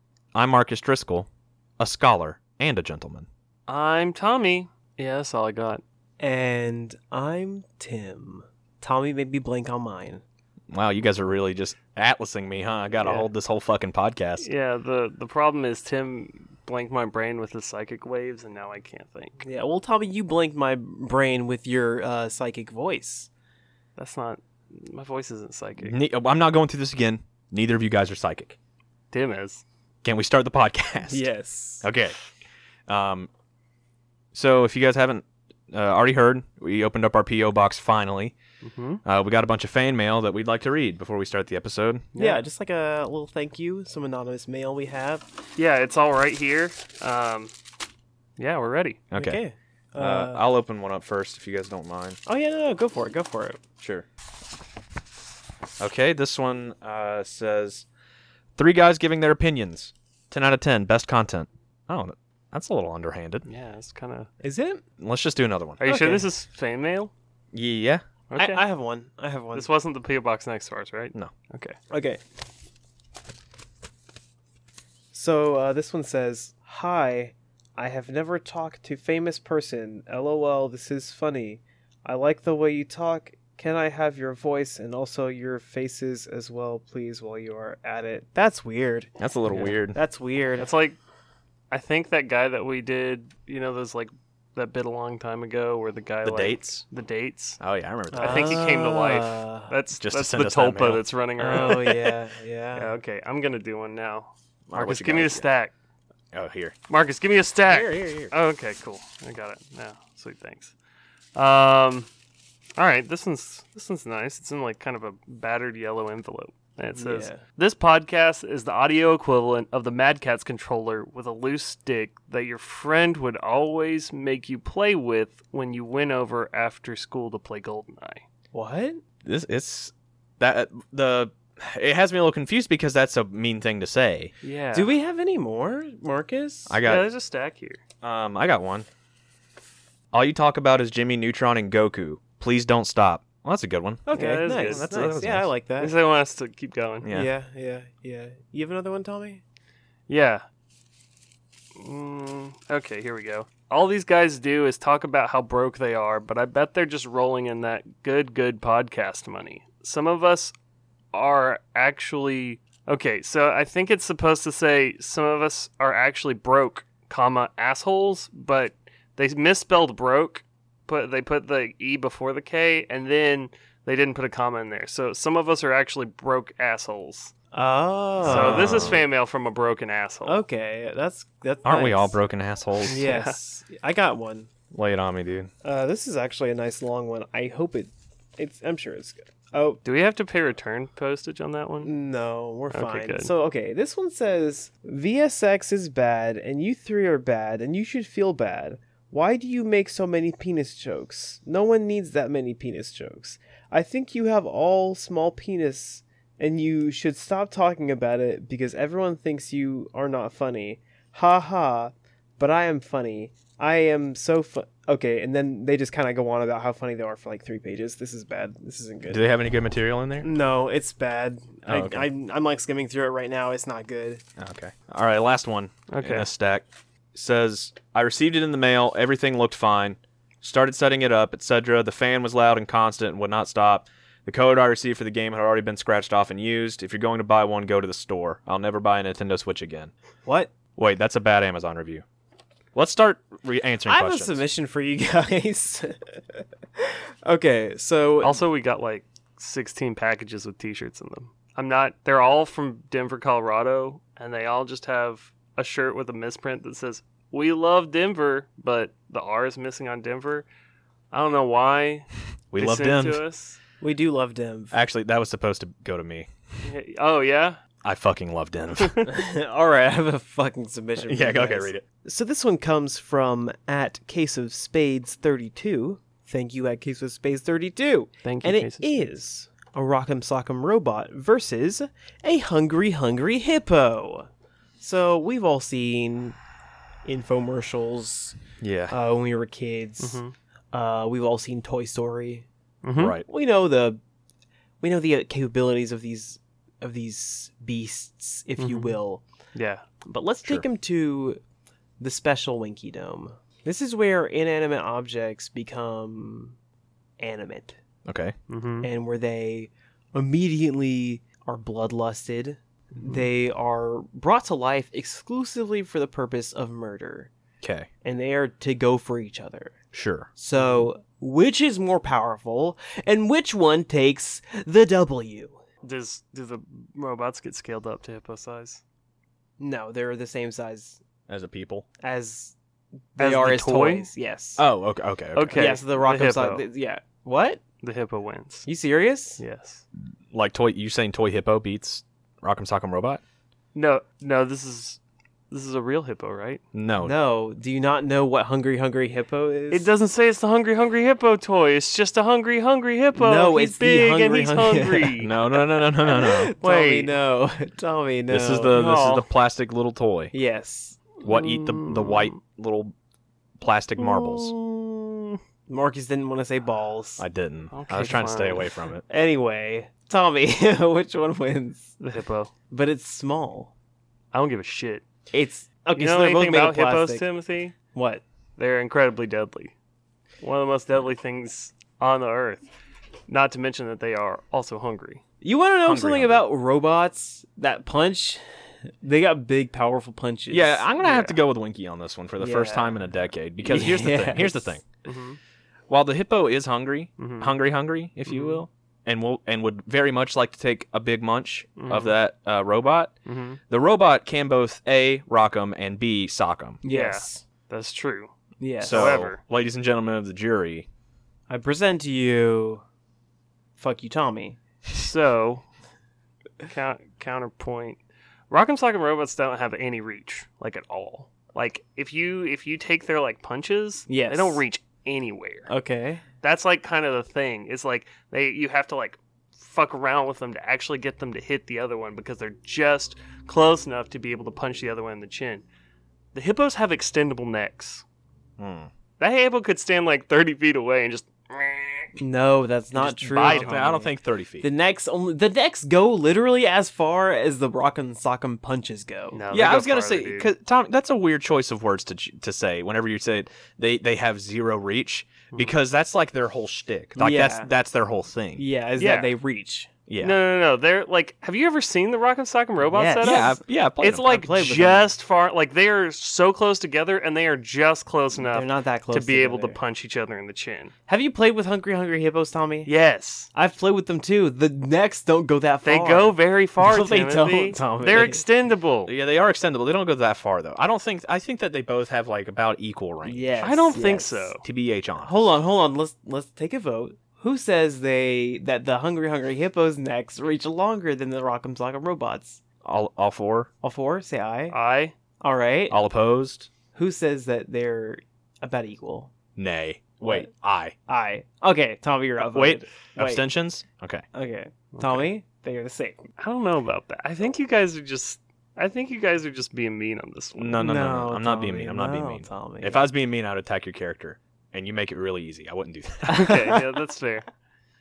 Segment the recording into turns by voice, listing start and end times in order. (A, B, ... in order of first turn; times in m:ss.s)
0:00.3-0:03.3 A
0:03.7-0:05.8 B
0:06.2-0:10.2 C
0:10.7-0:14.5 A
0:14.4-0:19.4 B
0:19.4-0:23.3 C
0:24.0-0:26.0 B
0:25.8-0:28.6 A
0:29.1-0:29.6 B
0:30.0-0:31.2 A
0:31.1-0:31.8 C
0:31.8-0:32.1 A
0:32.9-0:33.3 A
0:34.3-0:38.3 A
0:38.6-0:39.0 B
0:39.0-0:42.1 A
0:42.1-0:42.4 B
0:42.2-0:45.2 C
0:45.6-0:47.5 B
0:48.4-0:49.0 B
0:49.1-0:49.4 A
0:49.2-0:50.4 C
0:50.0-0:52.2 A
0:52.2-0:53.6 C
0:53.8-0:54.0 A
0:55.8-0:57.8 A
0:58.6-1:03.5 A
1:03.4-1:04.3 B
1:04.4-1:04.8 C
1:05.0-1:05.8 A
1:05.8-1:07.1 B
1:05.8-1:06.3 C
1:07.5-1:08.0 A
1:08.3-1:08.6 B
1:08.4-1:09.7 C
1:09.5-1:11.8 B
1:11.9-1:12.2 C
1:15.1-1:29.1 C
1:29.2-1:30.0 A
1:29.9-1:30.7 C
1:30.6-1:31.0 B
1:31.7-1:37.6 B
1:36.2-1:36.8 A
1:37.6-1:38.6 A
1:38.1-1:39.7 C
1:38.1-1:42.1 B
1:40.0-1:41.0 A
1:41.4-1:42.9 C
1:42.7-1:45.7 B
1:44.7-1:45.4 A
1:46.3-1:46.7 A
1:46.9-1:50.7 B
1:47.7-1:48.3 C
1:51.4-1:52.1 B
1:52.8-2:08.2 B
1:56.9-1:57.4 C
2:08.5-2:09.0 C
2:09.2-2:14.3 A
2:14.4-2:14.9 B
2:14.7-2:16.8 C
2:16.7-2:17.1 A
2:16.8-2:17.8 B
2:18.0-2:18.9 A
2:20.1-2:25.5 A
2:24.1-2:26.0 C
2:24.1-2:25.0 B
2:25.8-2:27.1 B
2:27.0-2:27.3 A
2:27.1-2:29.4 C
2:30.1-2:30.4 B
2:31.8-2:40.5 B
2:41.1-2:57.3 B
2:57.5-2:59.0 C
2:58.2-2:59.0 A
2:58.2-3:00.4 B
3:00.2-3:02.2 C
3:01.6-3:03.0 A
3:02.9-3:04.5 C
3:02.9-3:03.3 B
3:04.7-3:05.5 A
3:05.6-3:09.8 C
3:09.8-3:11.9 B
3:11.8-3:39.3 C
3:12.7-3:13.3 B
3:39.1-3:40.3 A
3:40.2-3:44.2 C
3:41.7-3:42.1 A
3:44.4-3:59.9 A
3:45.9-3:46.3 B
4:00.2-4:00.5 C
4:00.7-4:02.0 A
4:02.7-4:04.4 A
4:03.8-4:08.4 C
4:08.2-4:20.4 B
4:21.1-4:23.6 B
4:22.5-4:23.2 A
4:23.8-4:24.7 C
4:24.7-4:26.3 A
4:26.6-4:27.6 B
4:27.8-4:29.0 A
4:28.8-4:29.1 B
4:29.0-4:44.3 C
4:31.0-4:31.8 A
4:38.2-4:38.9 B
4:44.8-4:46.4 C
4:47.0-4:48.4 C
4:48.6-4:48.9 A
4:48.9-4:50.2 C
4:50.0-4:50.3 B
4:50.7-4:52.4 C
4:52.8-4:53.2 B
4:53.0-4:53.2 A
4:53.2-4:54.0 C
4:54.8-4:59.2 C
4:58.6-4:59.0 B
4:59.5-4:59.8 B
5:00.0-5:01.4 C
5:02.0-5:06.6 C
5:07.2-5:07.8 C
5:08.0-5:08.3 A
5:08.5-5:08.9 B
5:08.8-5:17.3 C
5:12.9-5:13.2 B
5:17.6-5:17.9 A
5:18.0-5:19.8 C
5:19.9-5:20.3 A
5:20.4-5:25.6 C
5:20.6-5:20.9 B
5:25.8-5:28.8 B
5:29.6-5:31.0 C
5:31.3-5:31.8 A
5:32.0-5:32.5 C
5:33.1-5:34.6 C
5:33.2-5:34.1 B
5:34.6-5:35.7 A
5:35.3-5:36.6 B
5:35.5-5:37.6 C
5:37.8-5:38.7 B
5:38.6-5:39.4 C
5:39.4-5:39.8 B
5:40.3-5:43.2 A
5:43.7-5:45.0 B
5:45.5-5:46.6 B
5:46.7-5:47.1 A
5:47.0-5:49.9 C
5:49.7-5:55.3 B
5:53.1-5:58.9 C
5:55.2-5:56.5 A
5:56.6-5:57.1 B
5:58.3-6:00.3 A
5:58.7-5:59.2 B
6:00.3-6:01.1 C
6:01.2-6:02.9 A
6:01.2-6:02.4 B
6:03.6-6:04.5 A
6:04.0-6:05.4 B
6:05.7-6:07.2 C
6:07.2-6:09.0 A
6:07.7-6:08.7 B
6:09.1-6:12.0 C
6:12.0-6:12.5 B
6:12.7-6:13.7 C
6:14.3-6:15.0 B
6:15.3-6:17.3 C
6:16.0-6:17.7 B
6:17.9-6:18.2 C
6:18.6-6:19.7 B
6:20.4-6:22.6 B
6:23.3-6:25.2 B
6:25.4-6:28.4 C
6:25.8-6:26.4 A
6:29.0-6:30.9 C
6:30.5-6:34.8 A
6:31.0-6:31.3 B
6:32.4-6:33.1 C
6:33.6-6:34.8 C
6:35.0-6:35.4 B
6:35.9-6:43.1 A
6:37.2-6:37.5 B
6:38.3-6:38.6 B
6:41.8-6:42.2 B
6:43.2-6:43.6 B
6:43.7-6:46.8 A
6:46.8-6:47.4 C
6:46.8-6:49.4 B
6:48.6-6:49.2 C
6:48.8-6:50.9 A
6:51.5-6:52.8 C
6:53.8-6:54.6 C
6:54.9-6:55.6 B
6:56.6-7:05.7 B
7:04.1-7:04.6 C
7:05.7-7:06.2 C
7:06.4-7:15.6 B
7:16.3-7:18.0 B
7:18.6-7:18.9 A
7:19.2-7:22.2 B
7:22.2-7:29.4 C
7:22.9-7:24.0 B
7:23.2-7:24.7 A
7:29.3-7:30.5 B
7:29.5-7:38.6 A
7:37.2-7:37.7 C
7:38.6-7:39.9 C
7:39.0-7:39.3 B
7:40.1-7:40.4 A
7:40.2-7:50.9 B
7:42.8-7:43.6 C
7:43.2-7:44.3 A
7:44.1-7:45.1 C
7:48.3-7:49.8 C
7:51.1-7:52.9 C
7:52.8-7:53.5 B
7:53.5-7:58.4 C
7:55.8-7:59.1 B
7:59.0-8:03.5 A
8:03.2-8:04.5 C
8:03.6-8:04.6 B
8:04.6-8:05.5 A
8:05.2-8:12.6 C
8:12.8-8:13.7 A
8:13.8-8:14.8 C
8:14.7-8:15.1 B
8:15.4-8:16.0 C
8:15.9-8:16.7 A
8:16.9-8:19.3 C
8:19.6-8:20.9 A
8:20.2-8:20.5 C
8:21.1-8:23.4 C
8:22.4-8:24.2 A
8:24.3-8:26.3 C
8:24.9-8:25.3 B
8:26.4-8:30.9 B
8:30.5-8:36.5 A
8:30.8-8:33.0 C
8:36.2-8:37.5 B
8:36.3-8:36.8 C